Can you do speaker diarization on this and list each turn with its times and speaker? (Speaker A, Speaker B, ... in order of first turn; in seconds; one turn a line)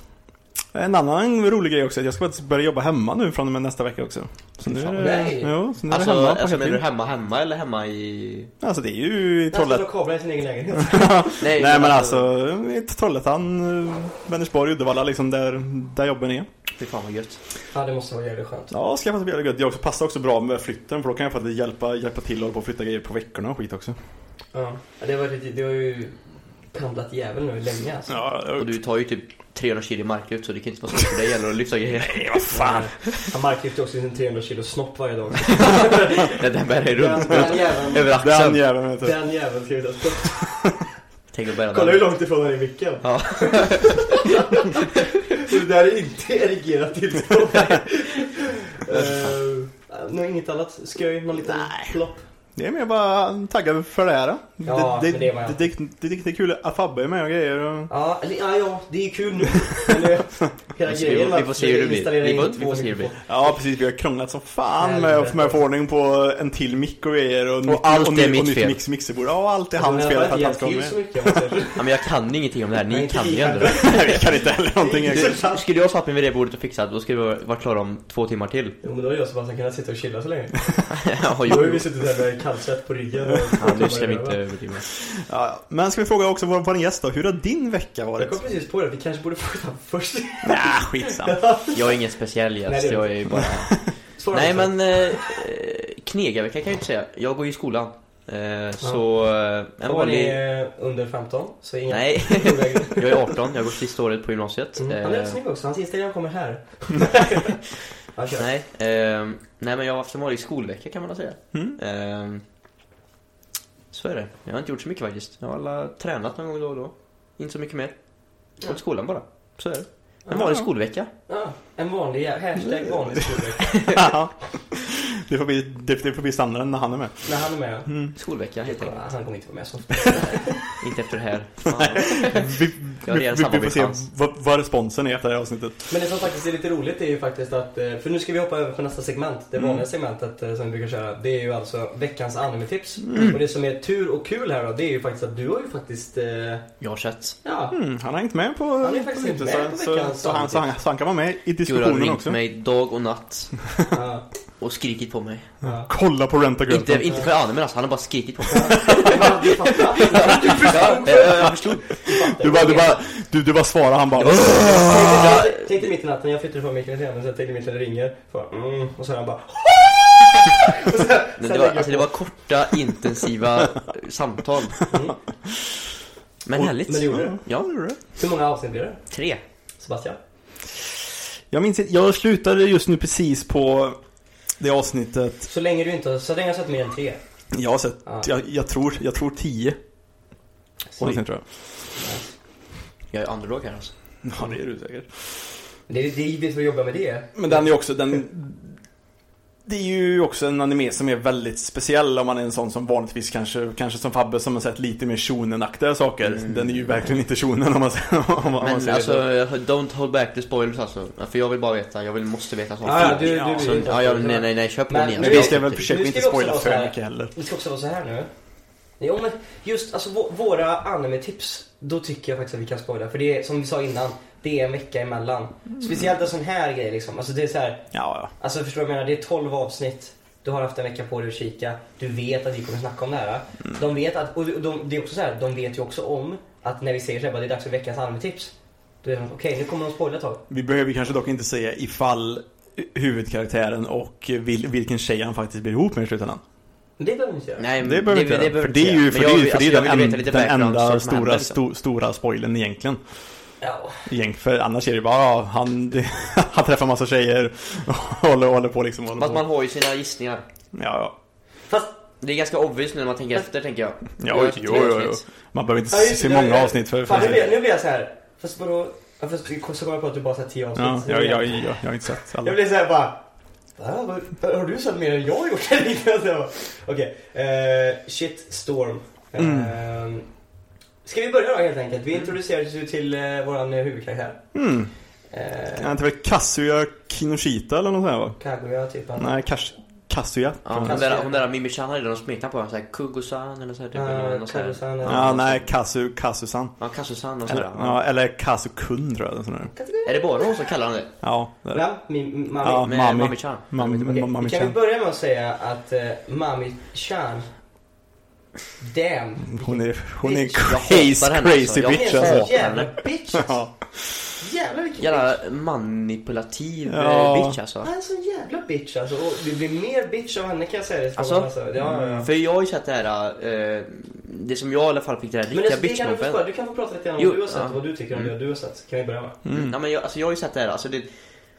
Speaker A: 0.7-6.8
Speaker B: 4.6-5.4
Speaker C: 5.0-5.5
Speaker B: 5.9-8.5
Speaker A: 8.6-9.8
Speaker C: 9.5-11.4
Speaker A: 10.7-16.5
Speaker B: 11.4-12.2
Speaker B: 16.8-17.4
Speaker C: 17.7-18.7
Speaker A: 18.7-23.9
Speaker C: 24.5-26.2
Speaker C: 26.7-28.2
Speaker A: 28.1-28.7
Speaker B: 28.6-32.5
Speaker A: 32.0-33.3
Speaker C: 32.5-38.1
Speaker B: 35.4-38.6
Speaker A: 37.3-39.2
Speaker C: 39.0-40.8
Speaker B: 41.3-42.1
Speaker C: 41.7-52.2
Speaker B: 43.0-44.3
Speaker A: 51.4-52.0
Speaker A: 52.5-57.9
Speaker C: 54.6-55.6
Speaker C: 57.9-63.6
Speaker B: 60.9-63.1
Speaker A: 63.3-71.5
Speaker C: 64.8-65.6
Speaker B: 67.6-68.8
Speaker C: 69.8-71.8
Speaker B: 71.8-74.2
Speaker C: 72.9-75.6
Speaker A: 73.6-75.3
Speaker B: 75.0-78.8
Speaker C: 78.8-84.4
Speaker B: 80.9-81.8
Speaker B: 83.6-84.8
Speaker A: 85.0-88.4
Speaker C: 88.2-91.9
Speaker A: 90.4-91.4
Speaker B: 91.7-93.8
Speaker C: 92.7-93.5
Speaker A: 93.3-93.9
Speaker C: 94.2-95.2
Speaker B: 94.3-100.4
Speaker C: 99.8-103.4
Speaker B: 101.9-105.4
Speaker C: 104.8-108.5
Speaker B: 108.3-112.4
Speaker A: 111.5-111.8
Speaker B: 113.9-118.0
Speaker B: 118.5-121.1
Speaker A: 120.3-120.7
Speaker C: 121.3-124.0
Speaker A: 122.6-127.3
Speaker C: 127.2-128.1
Speaker A: 127.9-128.1
Speaker B: 128.1-129.0
Speaker C: 128.6-130.7
Speaker B: 130.8-134.0
Speaker A: 131.7-135.9
Speaker C: 135.9-146.7
Speaker A: 139.6-139.8
Speaker A: 143.1-143.4
Speaker B: 146.8-147.4
Speaker C: 147.4-147.8
Speaker A: 147.7-152.4
Speaker C: 148.8-150.7
Speaker B: 151.6-153.6
Speaker C: 153.9-154.2
Speaker B: 154.6-155.5
Speaker C: 155.6-155.9
Speaker A: 155.6-157.2
Speaker B: 156.7-162.0
Speaker C: 158.5-163.0
Speaker A: 158.7-159.3
Speaker A: 160.2-165.4
Speaker B: 164.2-165.8
Speaker C: 164.6-172.1
Speaker B: 171.4-174.8
Speaker C: 174.9-175.2
Speaker B: 176.4-177.7
Speaker A: 176.6-178.0
Speaker C: 176.6-177.4
Speaker C: 178.2-179.0
Speaker B: 179.1-179.4
Speaker C: 179.8-180.2
Speaker A: 181.5-184.0
Speaker A: 184.6-185.5
Speaker C: 185.5-187.2
Speaker A: 187.5-189.8
Speaker A: 191.0-191.4
Speaker C: 191.9-192.3
Speaker B: 193.1-193.9
Speaker A: 194.2-195.1
Speaker C: 195.9-197.7
Speaker A: 197.3-198.8
Speaker A: 199.7-209.2
Speaker B: 206.3-206.7
Speaker B: 208.6-215.8
Speaker C: 212.8-218.3
Speaker A: 213.0-213.8
Speaker A: 215.2-217.3
Speaker C: 219.0-238.5
Speaker A: 227.9-228.3
Speaker C: 239.0-240.4
Speaker A: 240.5-246.4
Speaker C: 247.0-247.7
Speaker B: 247.6-251.6
Speaker A: 247.8-253.0
Speaker C: 253.6-254.0
Speaker A: 254.1-259.4
Speaker B: 259.2-260.4
Speaker A: 260.7-261.1
Speaker C: 261.7-261.9
Speaker B: 262.2-265.2
Speaker A: 264.2-267.5
Speaker C: 265.9-271.8
Speaker A: 270.8-272.6
Speaker C: 272.3-273.2
Speaker C: 273.8-280.2
Speaker A: 279.4-279.8
Speaker C: 281.0-284.4
Speaker A: 284.5-284.9
Speaker C: 285.3-285.9
Speaker A: 285.7-288.4
Speaker C: 288.4-289.4
Speaker A: 289.2-291.1
Speaker B: 290.6-295.7
Speaker C: 290.8-291.4
Speaker C: 293.9-295.3
Speaker A: 295.0-296.8
Speaker B: 296.8-298.0
Speaker A: 297.5-299.7
Speaker C: 299.7-300.6
Speaker B: 300.0-301.1
Speaker A: 301.2-301.9
Speaker C: 301.7-303.0
Speaker A: 302.6-304.8
Speaker B: 302.7-303.7
Speaker C: 303.8-307.5
Speaker C: 308.8-311.1
Speaker A: 309.5-312.8
Speaker B: 310.6-312.9
Speaker C: 311.8-313.6
Speaker A: 313.3-314.2
Speaker C: 314.4-315.4
Speaker B: 315.0-317.9
Speaker A: 316.9-317.6
Speaker C: 317.8-322.3
Speaker B: 321.1-321.5
Speaker A: 321.8-322.3
Speaker B: 322.2-326.4
Speaker C: 325.5-329.4
Speaker B: 327.2-328.3
Speaker A: 329.4-329.7
Speaker B: 329.5-331.1